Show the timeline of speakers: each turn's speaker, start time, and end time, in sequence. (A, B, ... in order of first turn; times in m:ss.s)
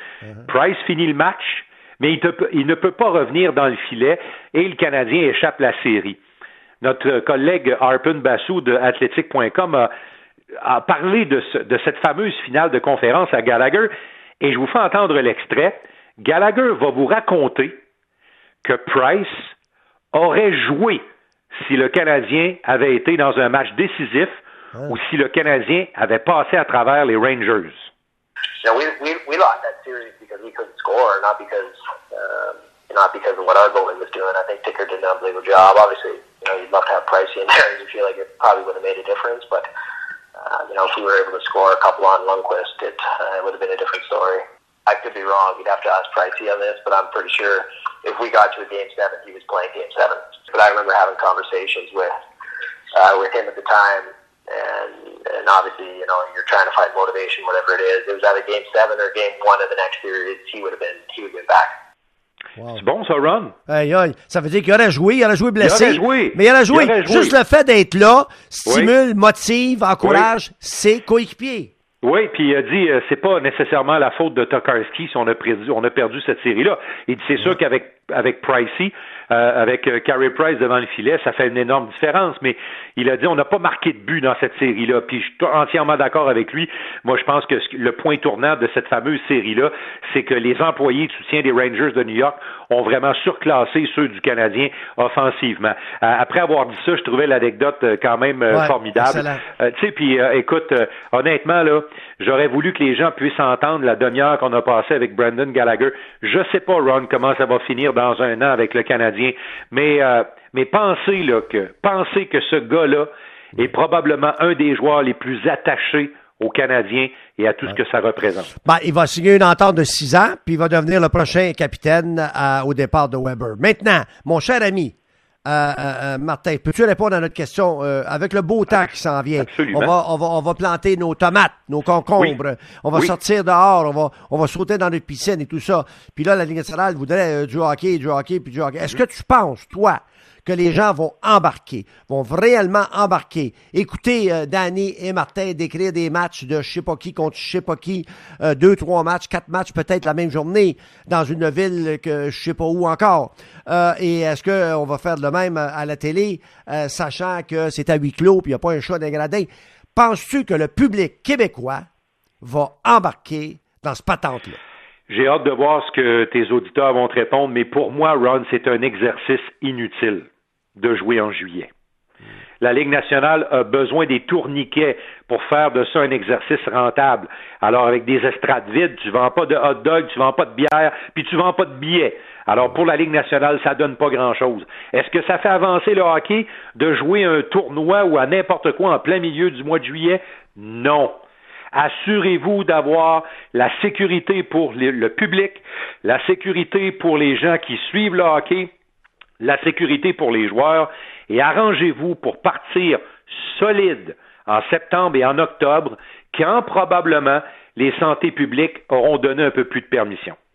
0:00.5-0:06.2 A
0:06.8-0:09.9 A
0:10.6-0:17.7 A
0:18.6-0:19.4 A
0:20.1-0:21.0 A
0:21.6-0:27.9 A
0:28.6-0:39.7 B
0:40.4-0:52.1 B
0:52.9-1:01.7 B
1:02.7-1:03.6 A
1:03.7-1:11.7 C
1:05.6-1:07.4 A
1:08.7-1:08.9 A
1:10.0-1:10.3 A
1:12.0-1:58.5 A
1:38.5-1:39.4 C
1:58.6-2:05.0 C
2:05.5-2:41.8 C
2:09.4-2:09.9 A
2:42.4-2:44.6 C
2:45.1-2:51.7 A
2:52.6-3:11.2 A
3:11.7-3:18.7 A
3:19.4-3:30.4 A